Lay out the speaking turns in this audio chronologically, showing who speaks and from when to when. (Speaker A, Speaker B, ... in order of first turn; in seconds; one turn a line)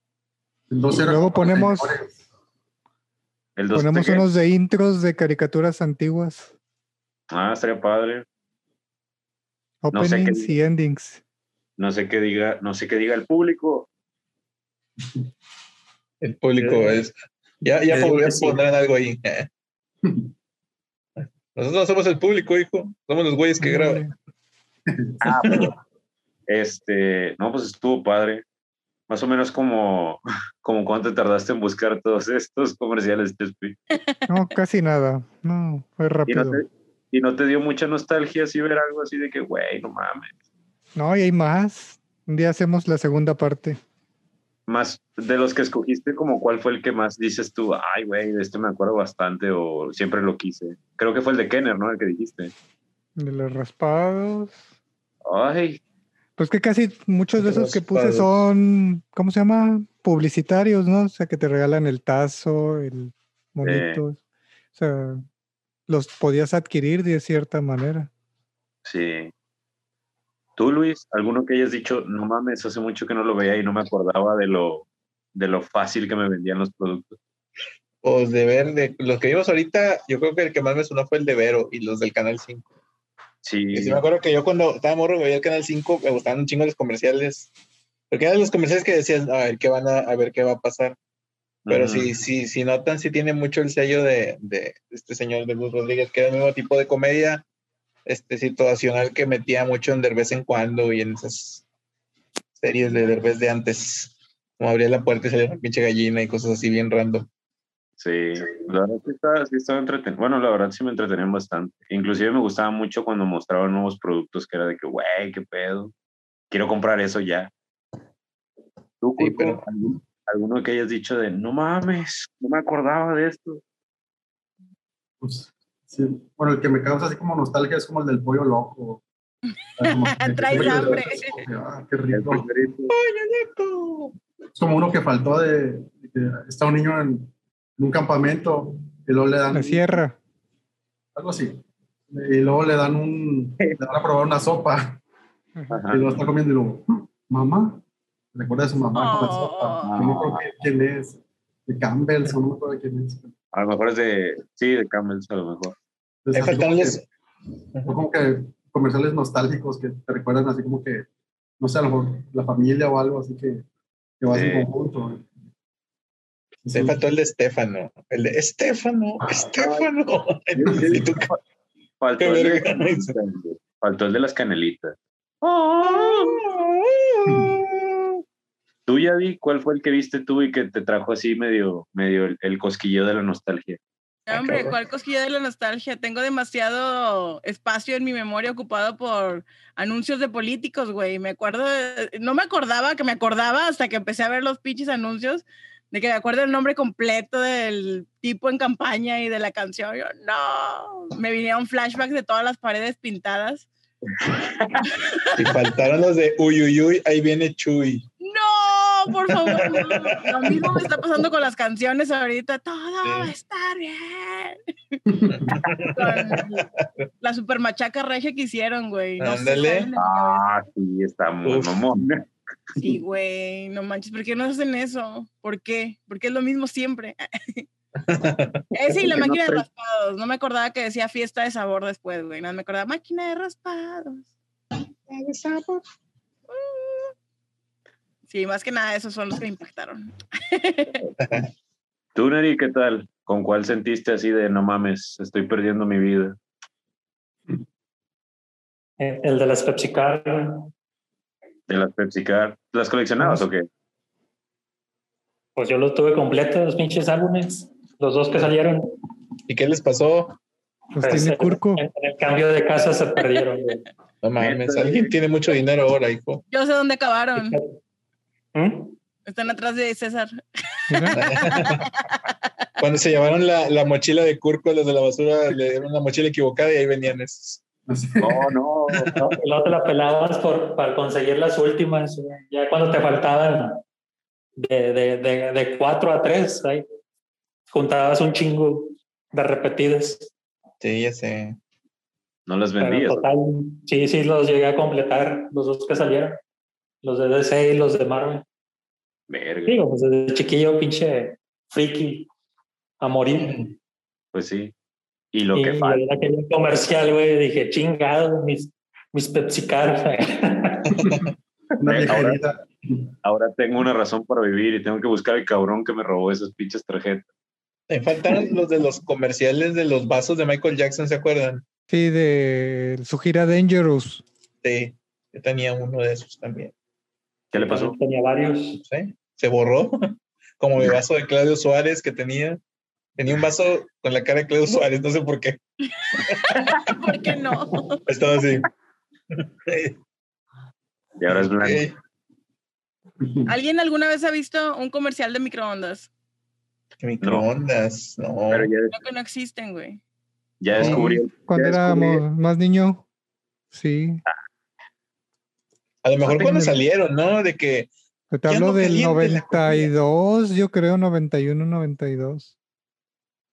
Speaker A: 0.7-2.2
Speaker B: 1.0-2.0
Speaker C: 3.6-4.3
Speaker B: 3.7-6.5
Speaker C: 7.3-8.2
Speaker B: 9.8-11.2
Speaker C: 9.9-10.5
Speaker C: 11.8-13.9
Speaker D: 16.2-19.5
Speaker C: 17.9-18.5
Speaker A: 20.0-20.3
Speaker D: 21.5-24.1
Speaker B: 23.6-24.1
Speaker A: 24.9-25.1
Speaker C: 25.2-25.7
Speaker C: 26.5-28.4
Speaker C: 29.1-33.8
Speaker B: 34.3-36.6
Speaker C: 36.3-40.3
Speaker B: 41.0-43.8
Speaker C: 44.7-52.5
Speaker B: 53.2-54.6
Speaker C: 55.2-55.8
Speaker B: 56.4-64.2
Speaker D: 57.4-58.4
Speaker C: 63.6-64.0
Speaker B: 64.7-65.2
Speaker B: 65.9-68.1
Speaker C: 68.8-69.3
Speaker C: 70.6-77.2
Speaker D: 78.0-82.7
Speaker C: 83.4-84.0
Speaker D: 83.7-87.5
Speaker D: 88.1-91.0
Speaker C: 91.7-92.1
Speaker D: 91.7-97.4
Speaker D: 98.0-101.6
Speaker D: 102.6-107.2
Speaker C: 108.0-115.9
Speaker C: 116.5-117.5
Speaker C: 119.0-123.6
Speaker D: 119.2-119.6
Speaker A: 125.2-129.0
Speaker A: 129.8-132.4
Speaker E: 129.8-131.4
Speaker D: 130.5-131.0
Speaker C: 132.1-132.9
Speaker D: 132.9-134.1
Speaker A: 134.6-140.0
Speaker B: 139.5-140.2
Speaker A: 141.2-141.6
Speaker A: 142.1-145.0
Speaker C: 145.7-146.2
Speaker A: 145.9-147.8
Speaker A: 148.3-153.3
Speaker E: 148.9-149.9
Speaker C: 149.8-150.3
Speaker C: 153.5-155.7
Speaker A: 156.2-157.0
Speaker D: 156.3-157.0
Speaker A: 157.8-161.1
Speaker A: 161.6-163.6
Speaker A: 164.2-165.3
Speaker C: 164.3-164.7
Speaker A: 166.6-166.9
Speaker D: 166.7-171.3
Speaker C: 169.6-169.9
Speaker C: 170.5-171.4
Speaker C: 172.0-176.4
Speaker D: 172.2-173.1
Speaker D: 175.8-178.2
Speaker C: 178.9-183.8
Speaker E: 184.3-203.7
Speaker D: 184.3-184.8
Speaker E: 205.0-205.5
Speaker D: 205.3-208.0
Speaker E: 208.2-215.0
Speaker D: 209.3-210.9
Speaker D: 213.0-213.3
Speaker A: 215.1-215.6
Speaker D: 215.3-217.1
Speaker E: 215.9-216.7
Speaker E: 217.2-220.6
Speaker D: 219.2-219.9
Speaker C: 219.9-222.2
Speaker D: 221.4-222.0
Speaker E: 222.8-227.7
Speaker D: 228.0-228.7
Speaker E: 228.7-234.3
Speaker C: 229.0-229.6
Speaker D: 235.1-235.8
Speaker E: 236.5-237.1
Speaker E: 238.3-241.0
Speaker D: 241.2-241.5
Speaker C: 242.2-246.3
Speaker F: 249.0-250.7
Speaker C: 251.7-253.7
Speaker B: 253.2-253.5
Speaker F: 255.6-258.9
Speaker D: 259.5-260.4
Speaker B: 260.9-261.8
Speaker F: 261.0-263.8
Speaker D: 264.2-266.4
Speaker C: 264.4-265.1
Speaker E: 266.5-267.6
Speaker F: 267.4-267.6
Speaker F: 268.5-268.9
Speaker E: 269.3-272.5
Speaker B: 270.9-271.1
Speaker D: 271.1-271.9
Speaker D: 272.8-277.6
Speaker A: 277.9-278.4
Speaker C: 278.2-279.1
Speaker D: 278.9-279.2
Speaker F: 279.2-283.8
Speaker F: 284.6-286.8
Speaker F: 287.7-290.3
Speaker D: 290.8-291.6
Speaker C: 292.4-293.3
Speaker F: 292.8-296.4
Speaker F: 297.0-298.4
Speaker C: 299.3-299.8
Speaker F: 299.7-302.3
Speaker F: 303.0-303.5
Speaker D: 303.3-303.7
Speaker C: 304.3-304.7
Speaker C: 305.3-306.0
Speaker F: 305.5-310.9
Speaker D: 310.9-311.3
Speaker A: 311.8-313.1
Speaker D: 311.9-312.1
Speaker C: 312.0-312.4
Speaker C: 313.2-317.3
Speaker D: 317.9-321.6
Speaker B: 321.9-324.2
Speaker D: 324.6-326.7
Speaker C: 327.5-327.9
Speaker F: 327.6-328.8
Speaker D: 328.7-332.6
Speaker D: 333.2-335.6
Speaker E: 336.6-338.0
Speaker D: 338.1-338.7
Speaker D: 339.3-339.9
Speaker C: 341.2-341.8
Speaker D: 341.6-341.9
Speaker A: 343.2-343.5
Speaker E: 343.5-346.1
Speaker D: 347.0-348.7
Speaker C: 348.5-348.9
Speaker E: 348.9-350.0
Speaker C: 350.6-352.2
Speaker D: 350.7-351.2
Speaker B: 350.8-353.0
Speaker B: 353.7-354.2
Speaker D: 356.0-357.9
Speaker C: 356.2-356.7
Speaker B: 356.3-356.8
Speaker B: 358.3-362.5
Speaker D: 358.5-359.9